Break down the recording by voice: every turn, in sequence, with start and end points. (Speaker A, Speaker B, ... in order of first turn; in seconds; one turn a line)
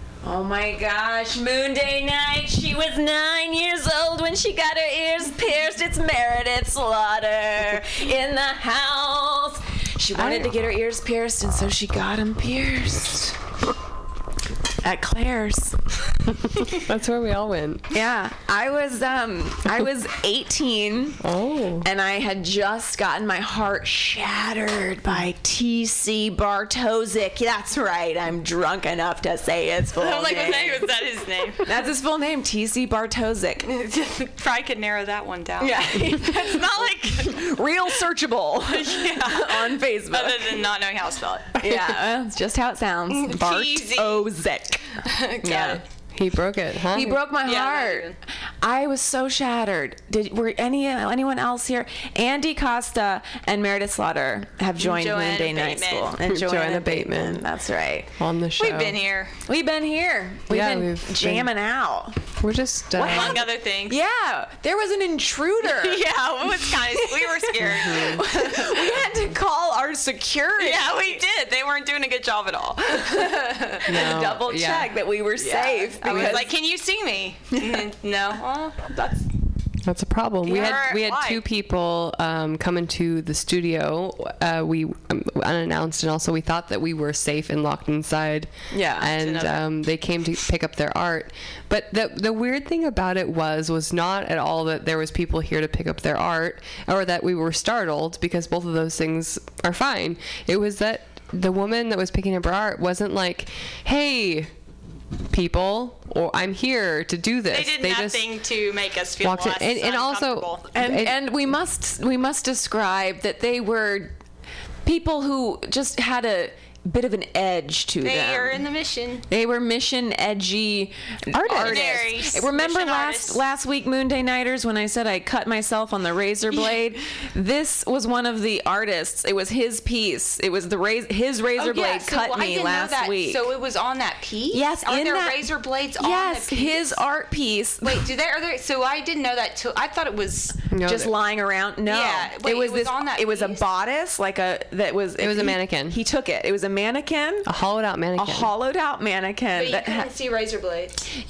Speaker A: 0.2-13.3
Speaker B: 10.1-10.5
Speaker A: 14.8-15.8
Speaker B: 16.9-17.8
Speaker A: 17.9-21.2
Speaker B: 21.2-21.8
Speaker A: 21.8-30.9
Speaker C: 30.0-31.8
Speaker A: 31.6-33.6
Speaker C: 33.6-37.4
Speaker A: 35.6-40.6
Speaker C: 38.7-41.5
Speaker A: 41.6-45.8
Speaker C: 43.1-44.2
Speaker C: 45.0-45.8
Speaker B: 46.1-47.3
Speaker A: 46.9-58.1
Speaker C: 47.4-48.1
Speaker C: 54.8-56.2
Speaker B: 56.2-57.4
Speaker B: 58.2-59.0
Speaker C: 58.6-59.3
Speaker A: 59.5-62.2
Speaker B: 60.5-61.5
Speaker B: 62.4-63.5
Speaker C: 63.0-64.0
Speaker A: 63.0-71.2
Speaker C: 65.7-68.9
Speaker B: 67.7-68.0
Speaker C: 70.6-73.4
Speaker A: 73.1-76.5
Speaker B: 73.9-74.9
Speaker C: 75.4-79.2
Speaker B: 79.8-104.5
Speaker C: 80.4-81.4
Speaker A: 88.7-89.1
Speaker C: 89.2-89.6
Speaker B: 105.3-108.3
Speaker C: 107.5-110.6
Speaker B: 109.2-111.2
Speaker A: 110.7-114.2
Speaker A: 114.8-118.6
Speaker C: 118.0-119.2
Speaker A: 119.3-133.5
Speaker C: 121.4-123.4
Speaker C: 131.6-137.0
Speaker A: 134.5-138.1
Speaker C: 137.8-140.6
Speaker B: 140.7-141.2
Speaker A: 140.8-147.5
Speaker C: 141.8-143.6
Speaker B: 145.2-146.0
Speaker B: 147.4-148.5
Speaker A: 148.1-150.1
Speaker C: 149.5-151.0